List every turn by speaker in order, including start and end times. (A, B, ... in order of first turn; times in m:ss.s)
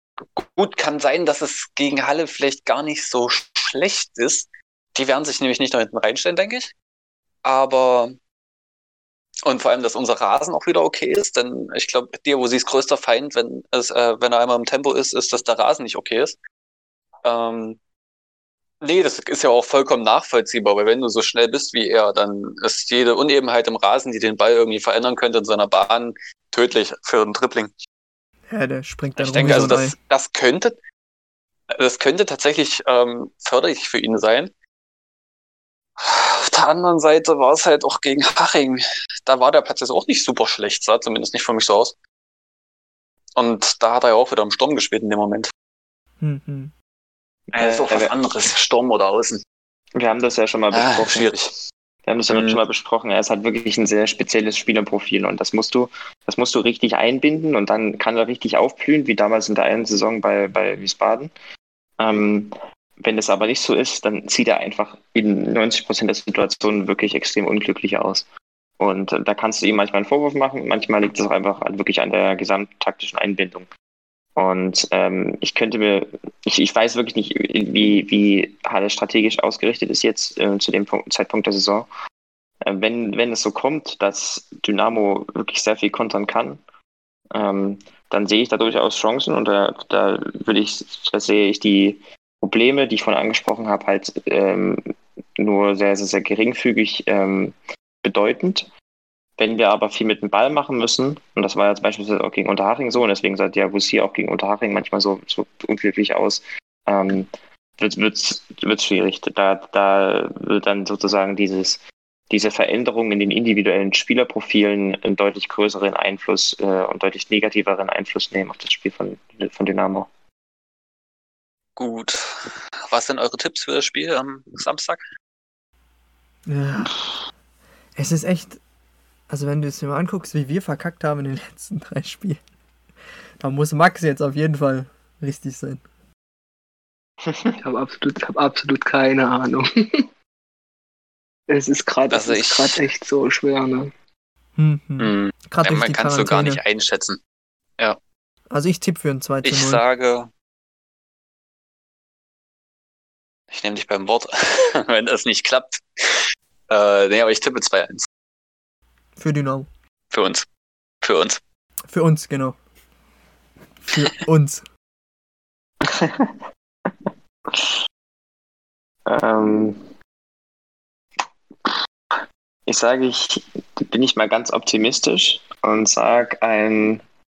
0:00.3-0:06.7 A
0:07.4-0:08.2 A
0:09.4-0:16.4 A
0:17.2-0:17.8 A
0:18.8-0:27.7 A
0:28.5-0:30.0 B
0:29.2-0:30.8 A
0:31.8-0:34.5 A
0:36.0-0:42.0 A
0:43.4-0:45.5 A
0:46.2-0:46.7 B
0:47.5-0:48.1 C
0:47.5-0:49.4 A
0:50.0-0:51.3 C
0:50.7-0:51.6 A
0:52.1-1:01.3 C
0:52.3-0:52.6 A
1:02.0-1:08.3 C
1:08.8-1:13.7 C
1:14.4-1:21.9 C
1:22.6-1:26.6 C
1:27.3-1:34.8 C
1:35.4-1:38.7 C
1:39.4-2:00.1 C
2:01.8-2:05.0 A
2:06.5-2:07.0 B
2:08.0-2:08.6 B
2:09.3-2:12.4 B
2:13.4-2:15.8 B
2:17.2-2:17.6 C
2:17.6-2:20.1 D
2:21.5-2:23.9 D
2:22.1-2:22.8 A
2:24.6-2:26.6 B
2:25.0-2:27.2 A
2:28.5-2:29.8 B
2:29.4-2:30.3 A
2:33.5-2:38.1 A
2:39.2-2:39.7 B
2:40.1-2:40.5 A
2:41.0-2:41.4 A
2:41.9-2:42.6 B
2:43.8-2:44.6 B
2:45.8-2:46.3 C
2:47.5-2:47.8 C
2:49.1-2:49.9 C
2:52.7-2:57.0 C